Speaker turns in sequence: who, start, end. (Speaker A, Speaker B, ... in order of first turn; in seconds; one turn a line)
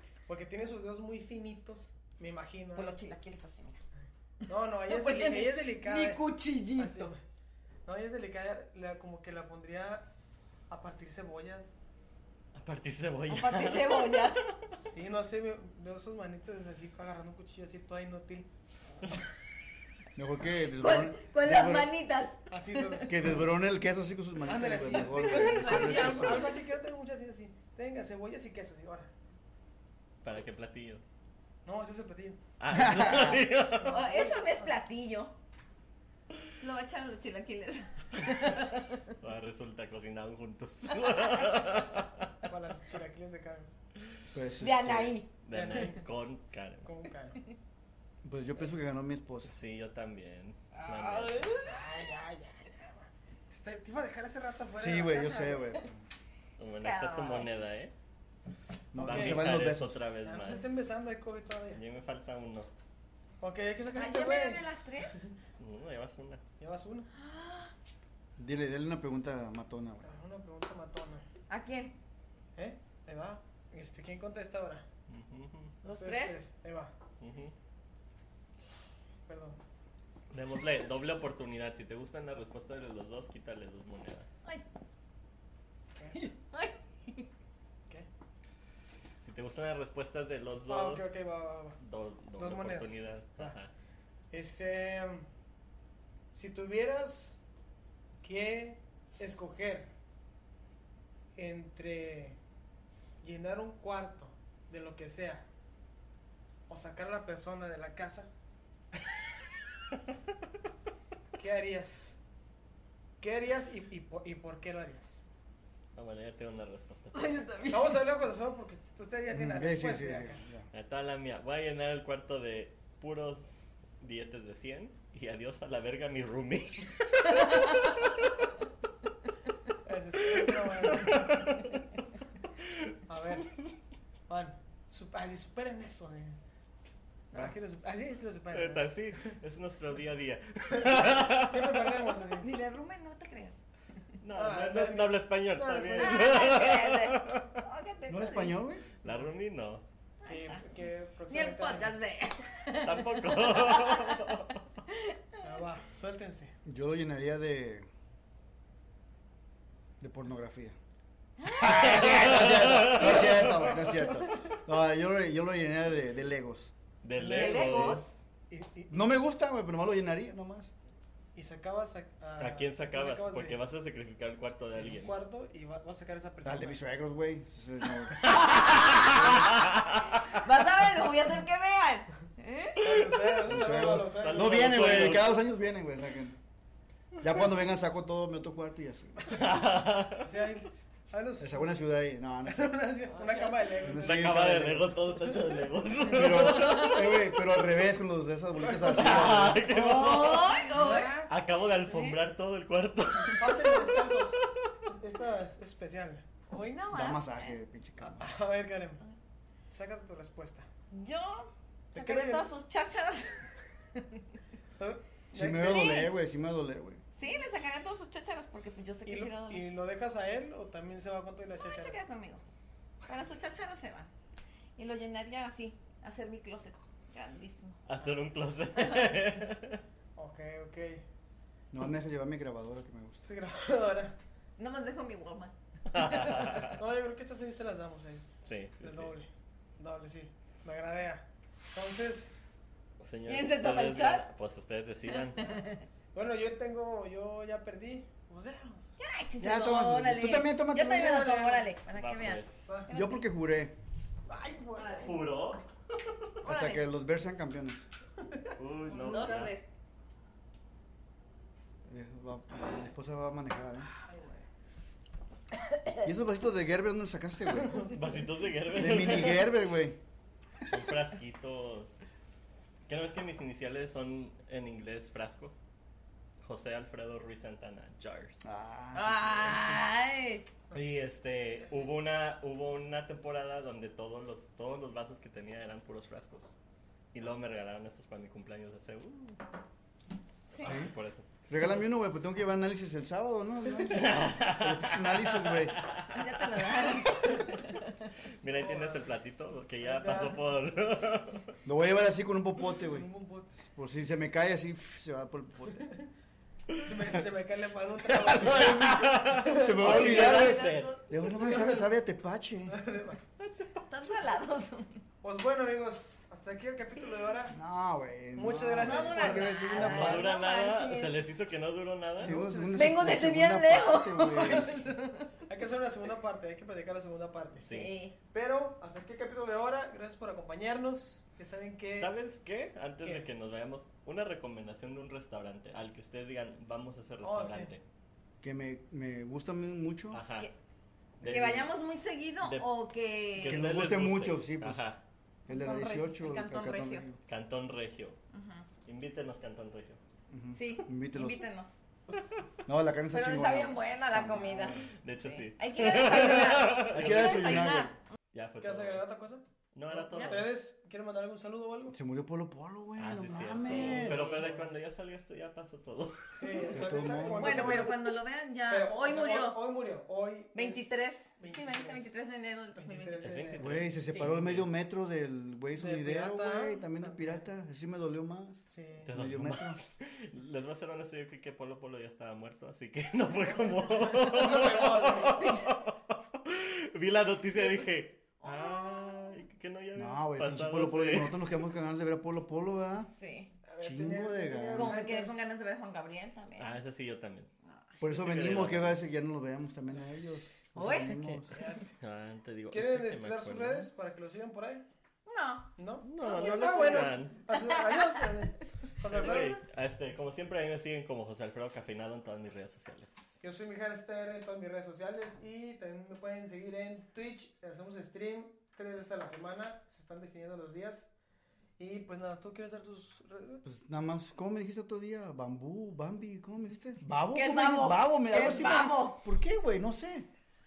Speaker A: 0.3-3.0
Speaker B: 2.8-3.8
Speaker B: 4.4-7.2
Speaker A: 4.5-6.2
Speaker A: 6.8-7.2
Speaker A: 7.8-10.1
Speaker A: 10.7-11.8
Speaker C: 12.6-14.3
Speaker B: 13.3-14.5
Speaker A: 14.7-18.5
Speaker D: 20.1-21.9
Speaker B: 20.8-23.1
Speaker A: 22.5-23.4
Speaker D: 23.1-26.6
Speaker A: 24.4-29.1
Speaker B: 24.9-26.5
Speaker C: 30.2-31.0
Speaker A: 31.6-32.4
Speaker C: 32.6-34.1
Speaker D: 32.7-33.5
Speaker A: 33.7-34.7
Speaker B: 33.8-35.3
Speaker B: 36.6-39.1
Speaker C: 38.5-42.3
Speaker B: 41.0-41.5
Speaker A: 42.5-43.7
Speaker D: 44.3-45.2
Speaker B: 44.6-46.0
Speaker C: 45.4-46.9
Speaker A: 45.5-46.0
Speaker A: 46.8-47.4
Speaker D: 48.2-49.5
Speaker C: 49.4-51.5
Speaker B: 50.7-51.8
Speaker A: 51.6-55.8
Speaker D: 54.8-56.1
Speaker C: 56.6-57.9
Speaker B: 56.8-57.5
Speaker D: 58.9-60.0
Speaker C: 59.0-60.9
Speaker A: 59.0-59.5
Speaker A: 60.2-61.8
Speaker C: 61.7-62.7
Speaker A: 63.4-65.3
Speaker B: 63.9-65.3
Speaker C: 65.6-66.4
Speaker A: 66.6-67.1
Speaker B: 67.1-67.7
Speaker D: 68.4-70.1
Speaker A: 70.0-71.3
Speaker B: 71.5-71.9
Speaker A: 72.5-74.9
Speaker C: 75.1-75.8
Speaker B: 75.8-76.4
Speaker A: 75.9-76.9
Speaker C: 77.2-77.5
Speaker A: 79.3-79.6
Speaker C: 80.3-84.4
Speaker B: 86.2-87.3
Speaker C: 89.2-91.2
Speaker A: 90.7-91.8
Speaker C: 91.8-93.7
Speaker A: 92.4-93.6
Speaker A: 94.3-95.3
Speaker A: 96.3-97.4
Speaker A: 98.2-99.9
Speaker A: 101.3-102.4
Speaker A: 103.2-105.5
Speaker A: 106.7-108.3
Speaker A: 111.3-112.2
Speaker A: 113.2-115.2
Speaker C: 116.0-117.4
Speaker B: 117.1-118.0
Speaker A: 117.7-120.4
Speaker D: 119.3-120.7
Speaker C: 120.7-128.2
Speaker B: 127.3-128.1
Speaker A: 129.8-131.6
Speaker C: 130.3-131.7
Speaker C: 132.6-132.9
Speaker A: 133.1-133.6
Speaker A: 134.3-136.4
Speaker A: 137.3-139.0
Speaker C: 138.5-142.0
Speaker A: 140.7-142.5
Speaker B: 142.4-143.6
Speaker C: 144.2-147.5
Speaker A: 144.4-146.4
Speaker B: 146.0-148.6
Speaker D: 148.1-148.8
Speaker C: 149.0-149.8
Speaker B: 150.2-154.3
Speaker A: 150.3-152.0
Speaker C: 152.8-154.7
Speaker B: 154.9-155.2
Speaker A: 155.4-156.5
Speaker D: 156.7-157.9
Speaker D: 160.0-160.8
Speaker B: 161.4-163.5
Speaker D: 161.5-166.7
Speaker C: 161.6-164.0
Speaker C: 167.0-168.2
Speaker A: 167.2-169.2
Speaker B: 167.2-168.1
Speaker D: 168.9-170.7
Speaker A: 171.3-173.6
Speaker C: 172.4-175.1
Speaker A: 174.7-176.8
Speaker D: 176.4-179.5
Speaker B: 178.2-179.5
Speaker C: 178.4-179.0
Speaker B: 180.2-183.2
Speaker A: 182.8-185.2
Speaker D: 183.4-186.4
Speaker C: 183.6-185.4
Speaker D: 187.2-189.3
Speaker C: 189.3-190.3
Speaker A: 190.2-191.9
Speaker D: 191.4-192.7
Speaker A: 192.5-194.4
Speaker C: 193.8-197.2
Speaker D: 193.8-195.0
Speaker D: 196.1-199.8
Speaker B: 196.3-197.1
Speaker A: 198.6-199.5
Speaker C: 198.7-204.3
Speaker B: 199.6-201.2
Speaker A: 200.7-201.3
Speaker B: 201.9-202.2
Speaker A: 203.3-206.3
Speaker B: 206.5-207.6
Speaker D: 206.9-208.3
Speaker A: 208.0-209.0
Speaker A: 209.7-210.7
Speaker B: 210.9-214.2
Speaker A: 211.9-212.5
Speaker A: 214.8-215.9
Speaker D: 215.3-217.0
Speaker B: 215.6-216.1
Speaker B: 217.2-219.7
Speaker A: 217.3-217.8
Speaker A: 219.1-222.0
Speaker B: 221.6-222.4
Speaker B: 223.1-224.1
Speaker B: 224.8-227.8
Speaker C: 227.9-229.8
Speaker B: 228.8-229.1
Speaker A: 230.2-231.1
Speaker D: 231.7-233.2
Speaker A: 233.2-234.2
Speaker B: 234.6-236.7
Speaker C: 235.9-236.8
Speaker A: 236.7-242.3
Speaker C: 238.4-239.1
Speaker C: 243.0-245.6
Speaker B: 243.3-244.3
Speaker B: 245.3-245.8
Speaker A: 246.1-248.9
Speaker B: 249.0-253.2
Speaker D: 249.4-251.5
Speaker A: 250.9-251.7
Speaker C: 251.9-252.7
Speaker D: 252.9-253.8
Speaker A: 254.3-255.2
Speaker B: 254.8-255.1
Speaker C: 255.0-255.6
Speaker B: 256.4-256.9
Speaker D: 256.4-257.8
Speaker A: 258.2-259.5
Speaker C: 258.6-259.5
Speaker B: 258.9-259.7
Speaker D: 261.9-264.0
Speaker A: 264.0-264.5
Speaker B: 265.7-266.1
Speaker D: 266.0-267.9
Speaker C: 267.7-269.5
Speaker D: 268.8-270.0
Speaker C: 270.6-272.0
Speaker C: 272.9-275.6
Speaker C: 276.4-278.7
Speaker D: 278.4-279.8
Speaker B: 278.9-280.5
Speaker C: 280.7-286.5
Speaker A: 281.6-281.9
Speaker C: 287.1-289.4
Speaker B: 290.5-290.8
Speaker C: 290.5-291.3
Speaker D: 290.6-290.9
Speaker D: 291.5-295.8
Speaker C: 293.9-296.9
Speaker B: 296.1-298.1
Speaker A: 297.2-297.5
Speaker C: 298.4-301.5
Speaker A: 298.5-299.1
Speaker A: 299.8-300.5
Speaker D: 301.6-305.9
Speaker A: 302.7-303.6
Speaker A: 305.7-306.1
Speaker A: 306.8-310.1
Speaker D: 308.1-312.8
Speaker C: 308.2-311.1
Speaker B: 309.8-311.0
Speaker A: 311.3-311.9
Speaker A: 312.7-313.2
Speaker C: 313.4-314.2
Speaker B: 313.8-315.0
Speaker A: 315.2-317.6
Speaker D: 317.5-320.3
Speaker A: 318.4-319.6
Speaker B: 318.8-321.2
Speaker C: 319.8-322.4
Speaker A: 322.2-323.0
Speaker D: 322.2-324.8
Speaker B: 322.7-325.3
Speaker A: 324.4-324.9
Speaker A: 325.5-327.7
Speaker C: 327.6-328.0
Speaker B: 327.7-328.1
Speaker A: 328.3-332.1
Speaker C: 331.9-337.8
Speaker A: 333.0-333.3
Speaker A: 337.2-337.7
Speaker D: 338.4-340.2
Speaker C: 340.1-340.5
Speaker C: 341.2-341.7
Speaker D: 341.2-341.6
Speaker B: 341.2-343.7
Speaker C: 342.4-342.7
Speaker C: 343.4-345.0
Speaker D: 343.4-344.9
Speaker B: 345.5-347.1
Speaker D: 345.5-347.2
Speaker C: 347.3-348.2
Speaker B: 348.3-348.7
Speaker C: 348.9-350.0
Speaker D: 350.3-351.4
Speaker B: 350.5-351.8
Speaker D: 352.7-354.9
Speaker B: 353.1-358.0
Speaker C: 354.9-359.1
Speaker D: 356.8-357.9
Speaker A: 358.6-362.0
Speaker C: 359.7-360.5
Speaker B: 360.1-360.5
Speaker D: 361.9-364.3
Speaker C: 363.0-367.0
Speaker B: 363.6-364.5
Speaker A: 364.1-364.7
Speaker A: 366.4-372.1
Speaker D: 366.7-368.0
Speaker B: 367.3-369.6
Speaker B: 370.5-373.4
Speaker A: 372.8-373.7
Speaker C: 373.2-374.7
Speaker D: 373.6-378.6
Speaker B: 374.1-374.3
Speaker A: 375.8-377.5
Speaker A: 378.7-379.1
Speaker C: 379.0-391.4
Speaker D: 379.1-379.9
Speaker A: 383.9-385.6
Speaker B: 385.3-385.8
Speaker B: 388.4-389.1
Speaker D: 390.0-393.1
Speaker B: 393.1-393.5
Speaker A: 393.7-395.3
Speaker D: 393.8-395.0
Speaker B: 394.7-396.7
Speaker C: 396.6-397.5
Speaker D: 398.0-401.5
Speaker C: 398.0-399.1
Speaker B: 400.8-401.2
Speaker C: 401.1-403.9
Speaker A: 401.5-402.0
Speaker A: 402.7-404.8
Speaker B: 405.3-405.7
Speaker A: 405.8-409.6
Speaker C: 406.0-407.4
Speaker B: 406.2-407.6
Speaker C: 409.0-413.4
Speaker A: 413.4-421.1
Speaker A: 421.8-423.6
Speaker D: 423.6-430.3
Speaker B: 427.3-429.2